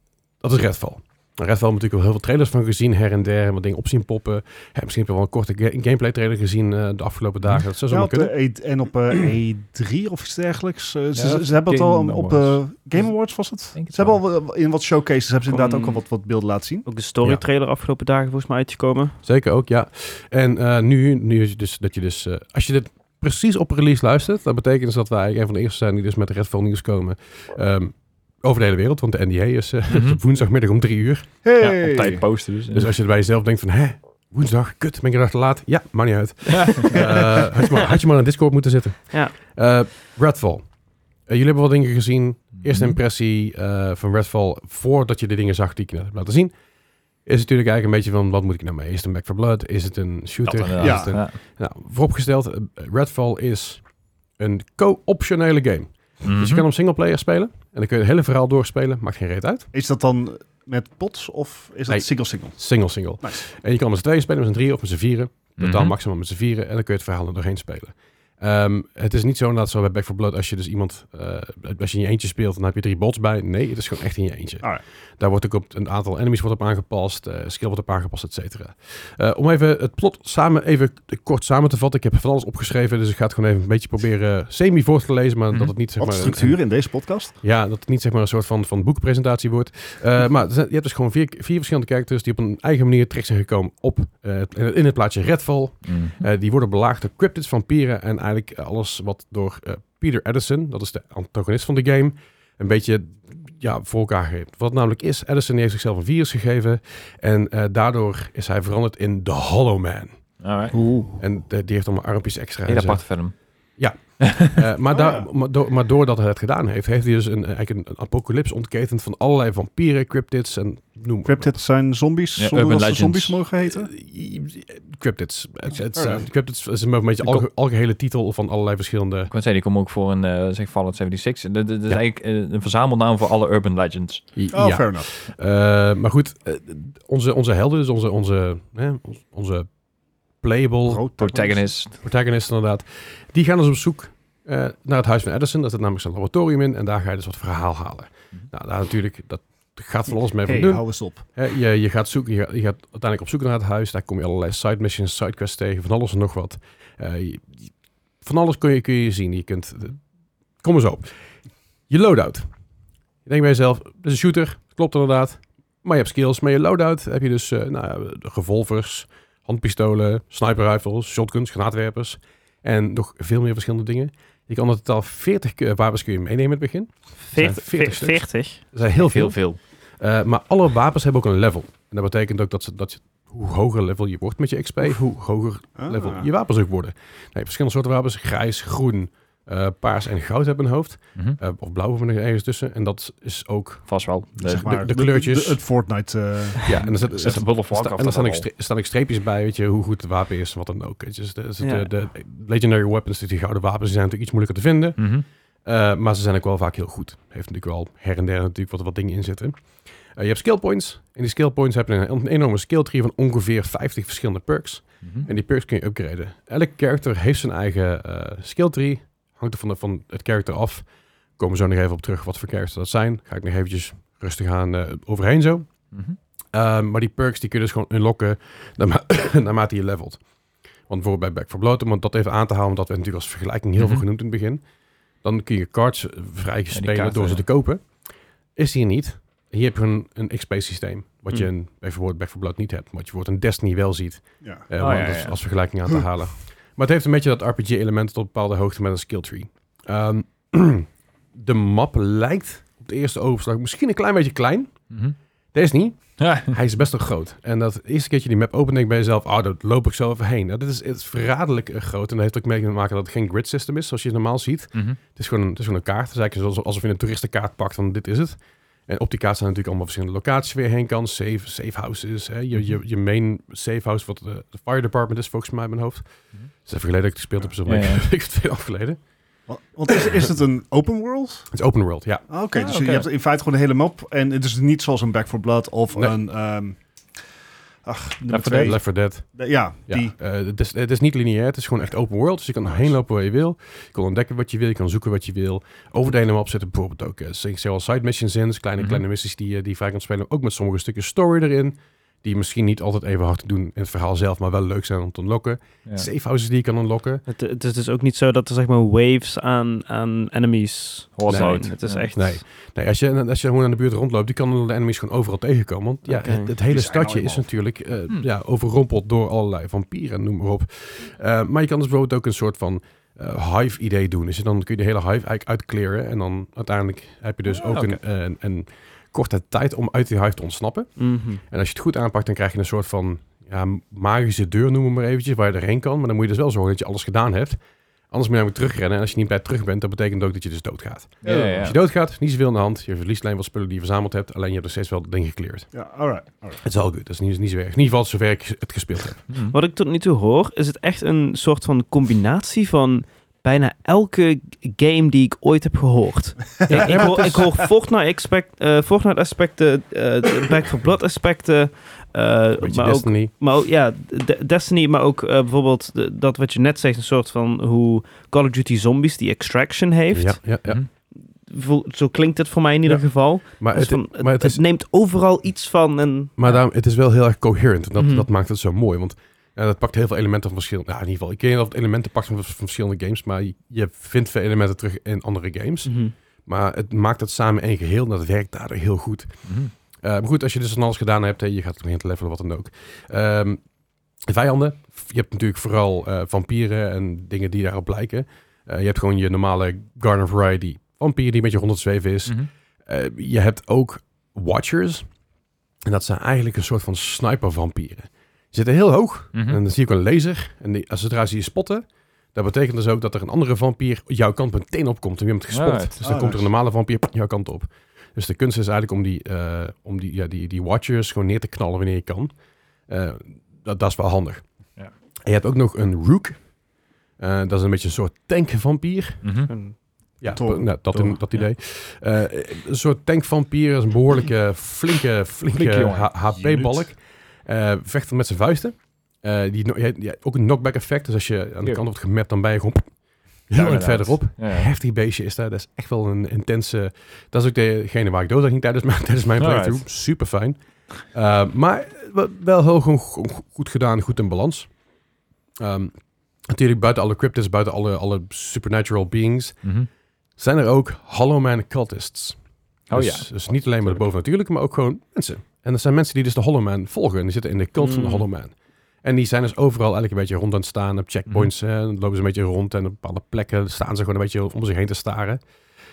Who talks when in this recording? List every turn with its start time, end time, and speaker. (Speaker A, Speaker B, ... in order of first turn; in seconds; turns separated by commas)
Speaker A: 0.4-8.3, Speaker B: 7.9-16.9, Speaker C: 11.1-13.1, Speaker C: 13.7-14.2, Speaker D: 15.5-16.0, Speaker D: 16.9-19.2, Speaker A: 19.2-31.3, Speaker C: 29.9-30.2, Speaker B: 31.4-32.3, Speaker C: 31.6-32.9, Speaker A: 32.7-40.6, Speaker A: 41.3-46.5, Speaker C: 42.6-43.0, Speaker A: 47.2-53.8, Speaker C: 50.4-51.4, Speaker B: 50.8-51.1, Speaker A: 54.4-59.7, Speaker C: 56.2-56.6, Speaker B: 59.7-62.6, Speaker A: 61.9-86.7, Speaker C: 65.6-65.9, Speaker B: 86.0-87.3, Speaker A: 87.3-110.2, Speaker C: 95.8-96.2, Speaker C: 110.4-110.8, Speaker B: 110.8-111.1, Speaker A: 111.2-113.1, Speaker C: 112.7-113.4, Speaker A: 113.8-121.5, Speaker C: 114.2-114.5, Speaker B: 114.9-115.3, Speaker B: 121.2-123.9, Speaker C: 122.4-123.4, Speaker A: 123.6-129.3, Speaker B: 125.9-126.2, Speaker C: 129.3-134.2, Speaker A: 134.3-139.7, Speaker B: 134.5-135.1, Speaker A: 140.4-141.0, Speaker B: 140.8-141.7, Speaker C: 141.2-142.0, Speaker A: 142.0-160.0, Speaker B: 150.4-151.2, Speaker A: 160.6-161.1, Speaker A: 161.9-162.5, Speaker A: 163.2-179.4, Speaker D: 177.2-178.6, Speaker C: 178.9-179.6, Speaker A: 180.0-193.9, Speaker B: 185.8-186.3, Speaker C: 193.9-194.8, Speaker B: 194.4-197.3, Speaker A: 194.5-195.6, Speaker A: 196.6-205.1, Speaker C: 196.8-198.5, Speaker D: 201.6-201.9, Speaker C: 205.0-205.2, Speaker A: 205.6-209.6, Speaker A: 210.1-220.8, Speaker C: 215.0-215.3, Speaker A: 221.4-225.7, Speaker A: 226.5-230.2, Speaker A: 230.9-234.6, Speaker C: 233.8-234.0, Speaker A: 235.2-237.8, Speaker C: 236.7-237.4, Speaker A: 238.6-254.9, Speaker C: 244.8-245.4, Speaker C: 254.9-255.2, Speaker A: 255.5-276.0, Speaker C: 256.2-256.5, Speaker A: 276.6-279.0, Speaker C: 277.6-278.0, Speaker B: 279.5-281.5, Speaker A: 281.5-282.2, Speaker B: 282.3-286.8, Speaker C: 282.5-283.1, Speaker B: 287.8-290.1, Speaker C: 288.3-288.7, Speaker A: 288.3-307.2, Speaker B: 292.6-292.9, Speaker D: 307.3-312.4, Speaker C: 311.1-312.1, Speaker A: 311.3-337.6, Speaker D: 316.1-316.5, Speaker B: 316.6-317.4, Speaker C: 327.5-328.0, Speaker D: 331.0-331.4, Speaker A: 338.1-345.7, Speaker B: 341.2-341.7, Speaker C: 341.2-341.8, Speaker B: 345.7-346.6, Speaker A: 346.6-349.2, Speaker C: 349.3-349.6, Speaker D: 349.5-370.4, Speaker B: 356.6-357.6, Speaker A: 356.7-357.5, Speaker A: 362.6-363.3, Speaker A: 370.1-370.8, Speaker D: 371.1-376.5, Speaker A: 372.9-374.6, Speaker A: 376.4-389.4, Speaker D: 378.0-378.2, Speaker D: 385.8-386.1, Speaker C: 389.4-389.7, Speaker A: 390.0-393.6, Speaker A: 394.3-405.1, Speaker A: 405.9-422.3, Speaker C: 409.3-409.6, Speaker C: 415.5-416.0, Speaker B: 416.0-416.5, Speaker A: 422.9-424.4, Speaker A: 425.2-426.4, Speaker A: 427.2-429.2, Speaker C: 429.2-429.5, Speaker D: 429.5-429.7, Speaker A: 430.2-442.9, Speaker B: 430.2-430.9, Speaker C: 435.5-436.1, Speaker B: 436.3-436.9, Speaker A: 443.5-454.7, Speaker C: 443.5-444.7, Speaker C: 449.4-449.8, Speaker A: 455.6-455.9, Speaker A: 456.5-459.7, Speaker C: 459.6-459.9, Speaker A: 460.4-462.4, Speaker C: 462.9-463.3, Speaker A: 462.9-475.4, Speaker D: 467.8-468.2